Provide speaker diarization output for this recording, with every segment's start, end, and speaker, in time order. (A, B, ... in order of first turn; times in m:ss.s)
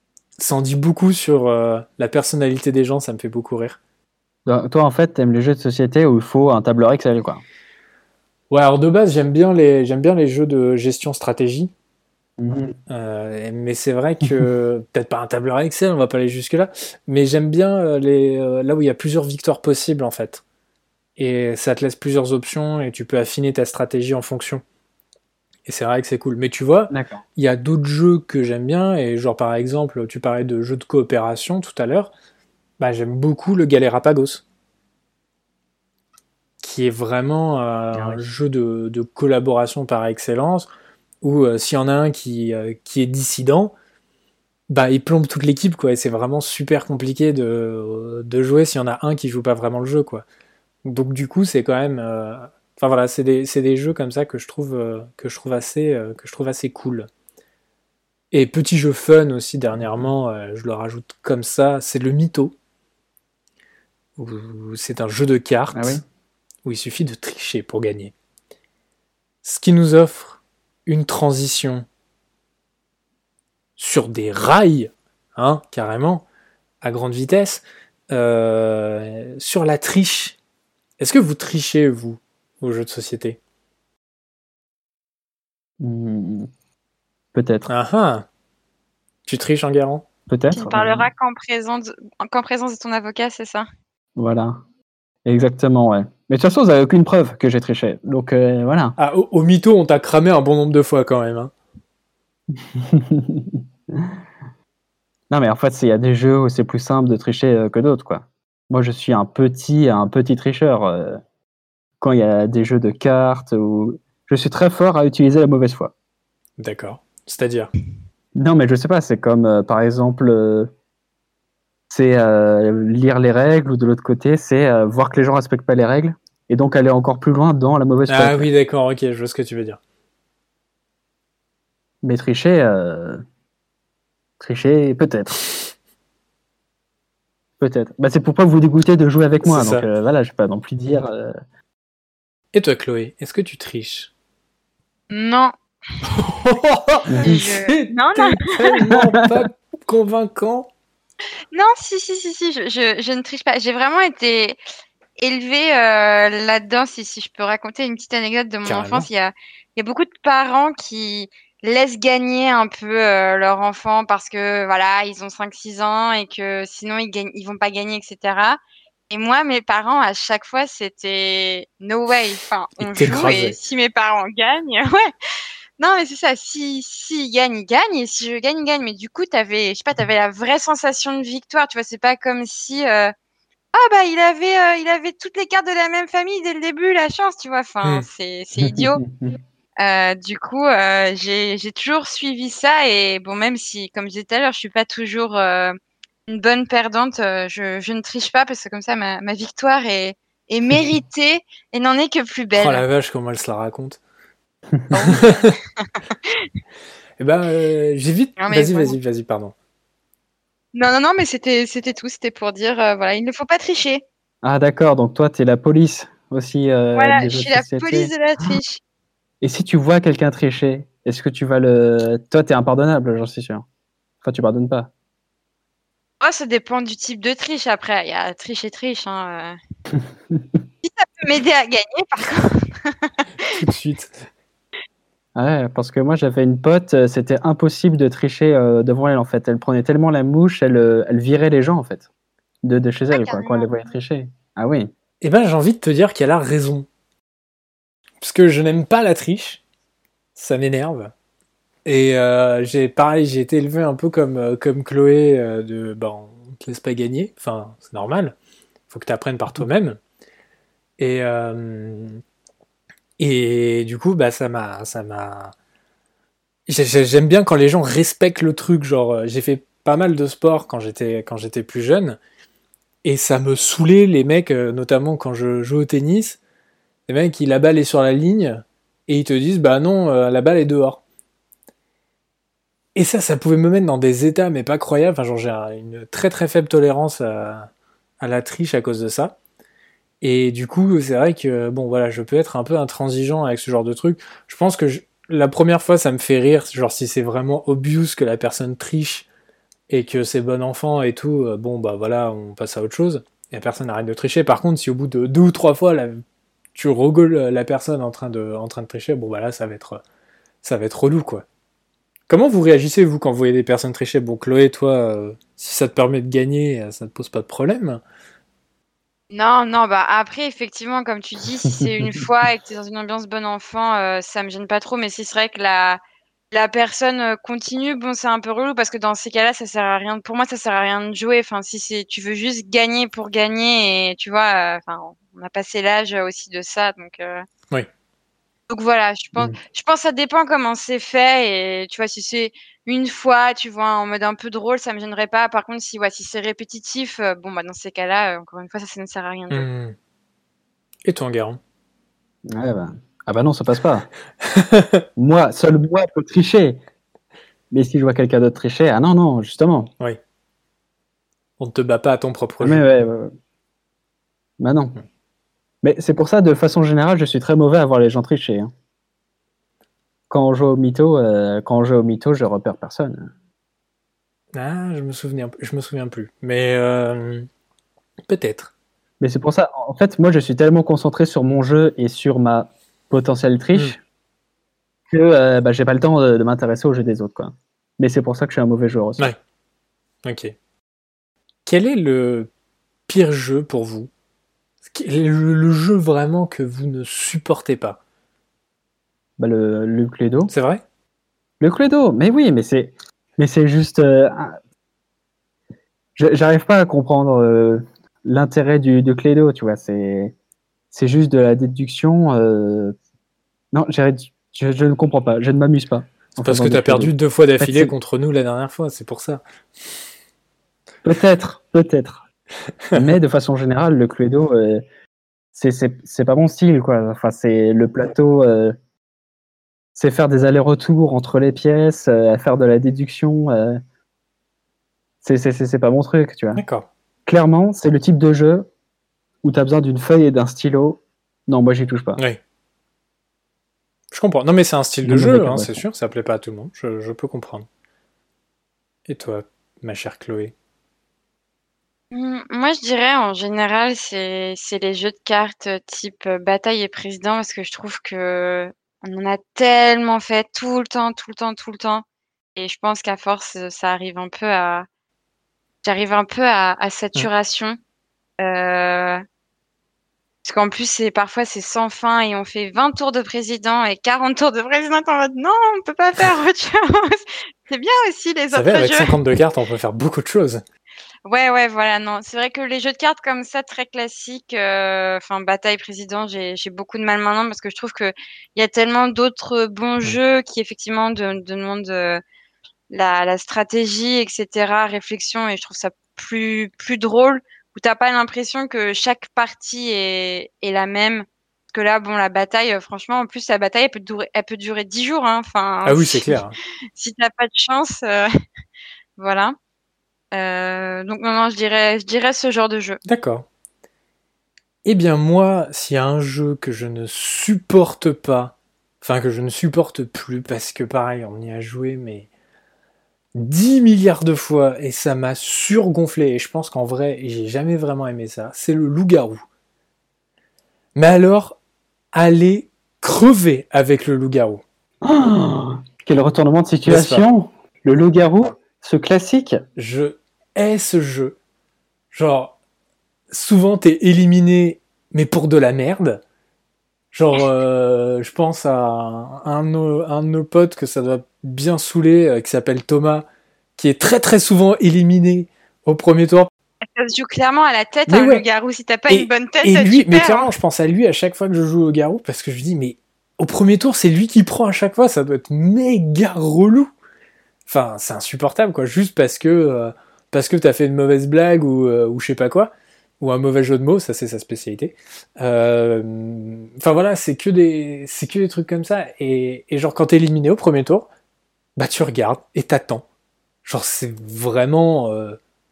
0:00.4-0:03.8 A
0:04.5-0:07.4 B
0:08.5-0:11.7 A
0:12.4-0:12.8 B
0:12.9-0:20.4 A
0:21.2-0:24.6 A
0:25.7-0:32.1 A
0:26.9-0:27.2 B
0:32.8-0:34.4 A
0:36.6-0:40.7 A
0:38.0-0:38.2 B
0:41.2-0:43.7 A
0:44.7-0:50.2 A
0:50.8-0:57.1 A
0:58.3-1:02.6 A
0:59.8-1:00.1 B
1:04.2-1:06.0 A
1:05.7-1:06.0 B
1:06.6-1:08.1 A
1:09.4-1:11.9 A
1:13.8-1:16.2 A
1:16.8-1:20.4 A
1:21.0-1:23.4 A
1:25.8-1:26.5 B
1:27.3-1:27.7 B
1:27.7-1:28.3 A
1:29.3-1:30.1 A
1:30.3-1:31.1 B
1:30.5-1:33.7 C
1:34.2-1:34.6 B
1:35.2-1:39.0 B
1:39.0-1:41.5 A
1:42.5-1:44.2 B
1:45.3-1:51.2 B
1:52.0-1:55.9 B
1:56.6-1:57.7 A
1:58.4-2:00.7 B
2:01.9-2:08.5 B
2:08.1-2:09.8 A
2:12.0-2:13.2 B
2:14.4-2:15.4 B
2:17.6-2:21.4 B
2:19.4-2:19.9 A
2:22.5-2:24.1 A
2:25.1-2:25.5 C
2:26.1-2:30.7 A
2:27.1-2:27.5 B
2:27.2-2:28.5 C
2:31.5-2:34.6 C
2:35.2-2:48.6 C
2:38.6-2:39.1 A
2:49.1-2:55.1 C
2:52.8-2:53.6 A
2:55.8-3:03.1 C
3:03.7-3:09.0 C
3:08.6-3:09.3 B
3:09.8-3:15.8 C
3:16.3-3:22.8 C
3:22.6-3:24.0 A
3:24.7-3:25.2 B
3:24.9-3:26.5 C
3:25.1-3:25.5 A
3:27.2-3:29.5 A
3:28.4-3:29.0 C
3:30.7-3:34.0 C
3:34.4-3:38.5 B
3:37.0-3:38.8 C
3:39.4-3:43.6 B
3:44.2-3:44.9 B
3:46.2-3:49.6 C
3:49.9-3:50.6 B
3:50.8-3:53.2 C
3:53.4-3:54.3 A
3:55.4-4:02.1 B
4:02.6-4:04.9 B
4:03.1-4:03.7 C
4:05.2-4:06.9 A
4:08.2-4:09.6 A
4:10.4-4:11.1 A
4:11.8-4:18.4 A
4:18.9-4:20.0 A
4:21.0-4:22.2 A
4:23.2-4:25.5 A
4:26.7-4:32.2 A
4:33.0-4:36.4 A
4:37.1-4:41.0 A
4:43.0-4:47.7 A
4:48.2-4:49.4 A
4:50.2-4:59.3 A
4:59.9-5:06.2 A
5:06.8-5:10.0 A
5:10.6-5:11.4 A
5:12.3-5:18.0 A
5:19.3-5:37.5 C
5:21.7-5:22.1 B
5:38.7-5:49.6 C
5:49.5-5:50.0 A
5:51.0-5:51.6 A
5:52.5-5:54.1 B
5:54.4-5:55.0 A
5:55.2-5:56.8 B
5:57.7-5:59.9 B
6:01.6-6:02.8 A
6:02.6-6:03.3 B
6:04.6-6:05.0 B
6:05.8-6:08.7 B
6:10.3-6:13.3 B
6:14.6-6:17.5 A
6:18.3-6:18.7 A
6:19.2-6:24.0 B
6:25.1-6:29.3 B
6:30.2-6:30.5 A
6:31.7-6:32.5 A
6:33.1-6:34.1 A
6:34.8-6:38.0 A
6:39.4-6:40.5 B
6:40.5-6:40.8 A
6:41.6-6:44.6 B
6:46.2-6:50.4 B
6:50.9-6:53.0 B
6:53.7-6:57.9 B
6:56.4-6:59.4 A
7:01.0-7:02.2 B
7:02.9-7:04.8 B
7:05.5-7:08.8 B
7:10.0-7:13.8 B
7:15.2-7:16.6 B
7:16.6-7:16.9 A
7:17.3-7:18.7 B
7:19.4-7:22.2 B
7:24.1-7:27.7 A
7:25.0-7:25.8 B
7:29.1-7:30.5 A
7:32.1-7:42.0 C
7:42.6-7:44.9 C
7:45.8-7:47.8 C
7:48.4-7:49.2 C
7:50.4-7:59.2 C
7:58.5-8:00.6 A
8:01.2-8:12.2 C
8:12.9-8:26.4 C
8:25.8-8:26.6 A
8:27.0-8:28.3 C
8:29.2-8:29.6 C
8:30.3-8:33.0 C
8:33.1-8:33.5 A
8:34.8-8:42.3 A
8:43.4-8:49.4 A
8:51.0-8:51.6 A
8:52.1-8:54.6 A
8:55.0-8:59.6 B
8:56.9-8:57.2 A
8:59.8-9:01.4 A
9:02.1-9:02.6 A
9:03.3-9:06.2 A
9:07.1-9:13.3 A
9:13.8-9:16.5 A
9:16.8-9:20.5 C
9:18.1-9:18.4 A
9:19.1-9:26.9 A
9:27.7-9:41.1 A
9:41.8-9:43.0 A
9:43.6-9:45.4 A